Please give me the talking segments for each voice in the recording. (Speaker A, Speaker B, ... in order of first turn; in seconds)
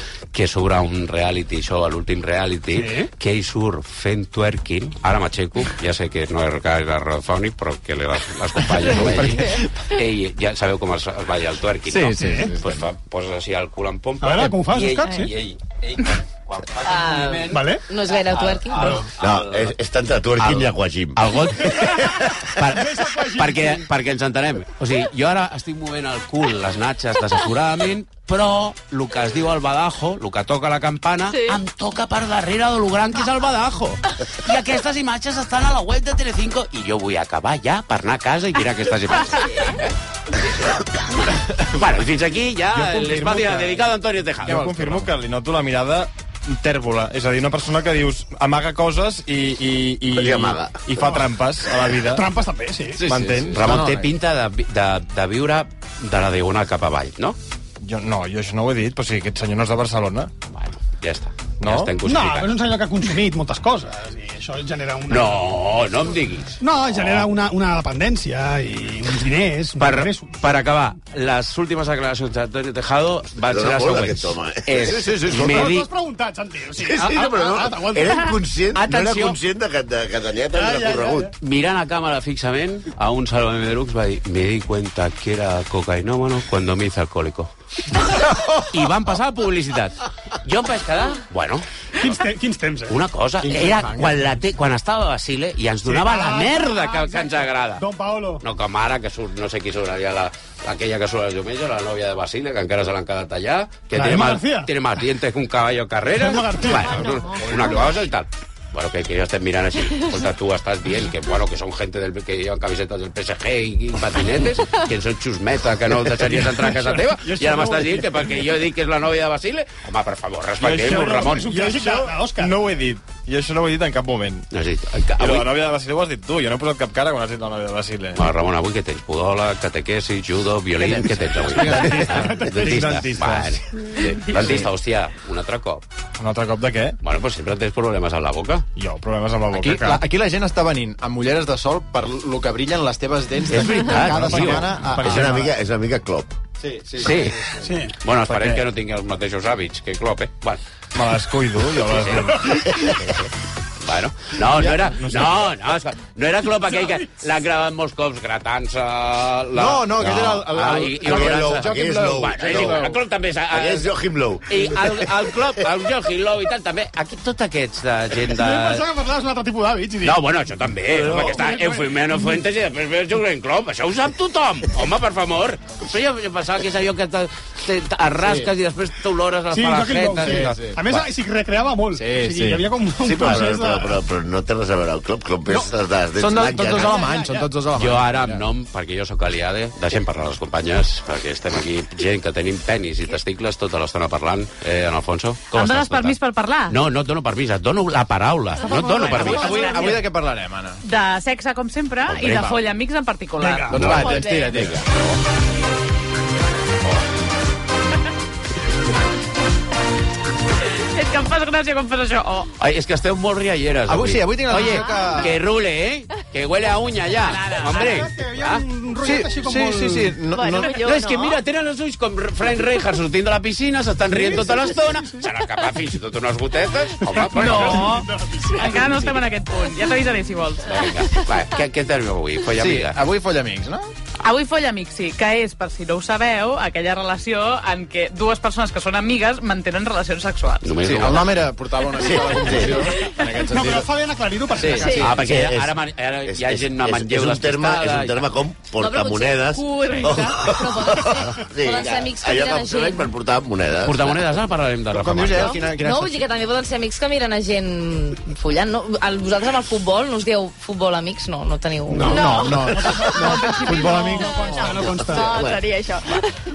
Speaker A: 0.3-19.7, 20.4-39.8, 41.6-44.7, 53.5-57.4, 60.5-62.5, 65.1-67.3, 69.8-75.9, 78.8-79.4, 81.4-87.5, 88.7-91.7, 92.9-97.8, 98.4-121.7, 124.5-125.5, 128.2-135.8, 137.0-138.7, 143.5-144.8, 147.0-147.4, 148.0-150.6, 151.9-153.3, 153.8-163.9, 164.5-168.8, 170.0-181.0, 187.7-199.7, 202.1-202.6, 203.8-204.8, 212.6-218.6, 220.7-228.0, 230.6-233.0, 240.6-241.4, 245.0-248.3, 253.8-255.6
Speaker B: 2.7-3.1, 14.2-15.3, 17.5-17.8, 22.6-23.9, 52.0-53.0, 62.0-65.5, 66.6-70.4, 75.3-78.3, 80.5-81.3, 92.0-92.9, 95.8-98.4, 103.9-104.7, 106.1-107.1, 120.8-122.6, 131.7-133.0, 147.6-147.9, 168.3-170.2, 170.9-172.3, 179.5-183.9, 186.6-187.5, 203.4-203.8, 217.7-220.2, 224.1-225.2, 227.0-228.9, 243.4-245.1, 262.7-265.4
Speaker C: 8.8-9.7, 11.9-12.8, 44.5-45.1, 53.0-54.1, 74.9-75.5, 93.4-94.2, 130.8-132.1, 139.5-145.4, 146.6-147.7, 159.5-163.0, 178.2-178.5, 180.2-180.8, 181.9-182.7, 186.2-188.4, 199.0-200.8, 202.2-202.5, 203.7-205.0, 213.9-215.4, 219.0-220.9, 232.5-233.9, 240.8-243.9, 244.6-245.1, 254.9-256.2, 262.0-264.4
Speaker D: 16.8-19.0, 248.8-253.1, 255.7-262.3
Speaker E: 19.2-22.0, 50.1-50.8, 73.5-75.7, 76.8-81.3, 144.9-146.4, 161.0-162.9, 163.5-165.3, 183.0-187.0, 242.0-242.9, 245.0-254.2, 265.2-265.6
Speaker F: 31.3-31.6, 39.3-39.8, 106.9-107.9, 203.8-204.6, 214.9-215.2, 220.3-221.4, 244.7-245.1, 262.0-262.5, 263.6-266.4
Speaker G: 42.8-43.8, 44.4-52.2, 53.0-53.6, 57.8-60.3, 61.6-61.9, 116.4-118.1, 120.6-124.5, 125.2-128.3, 131.7-133.6, 136.2-137.0, 138.8-140.0, 144.1-145.5, 148.3-148.6, 150.9-152.7, 154.9-155.4
Speaker H: 195.5-196.8, 198.6-200.0, 200.8-203.8, 210.9-212.5, 217.2-218.0, 227.3-230.8, 234.2-240.8, 263.2-264.4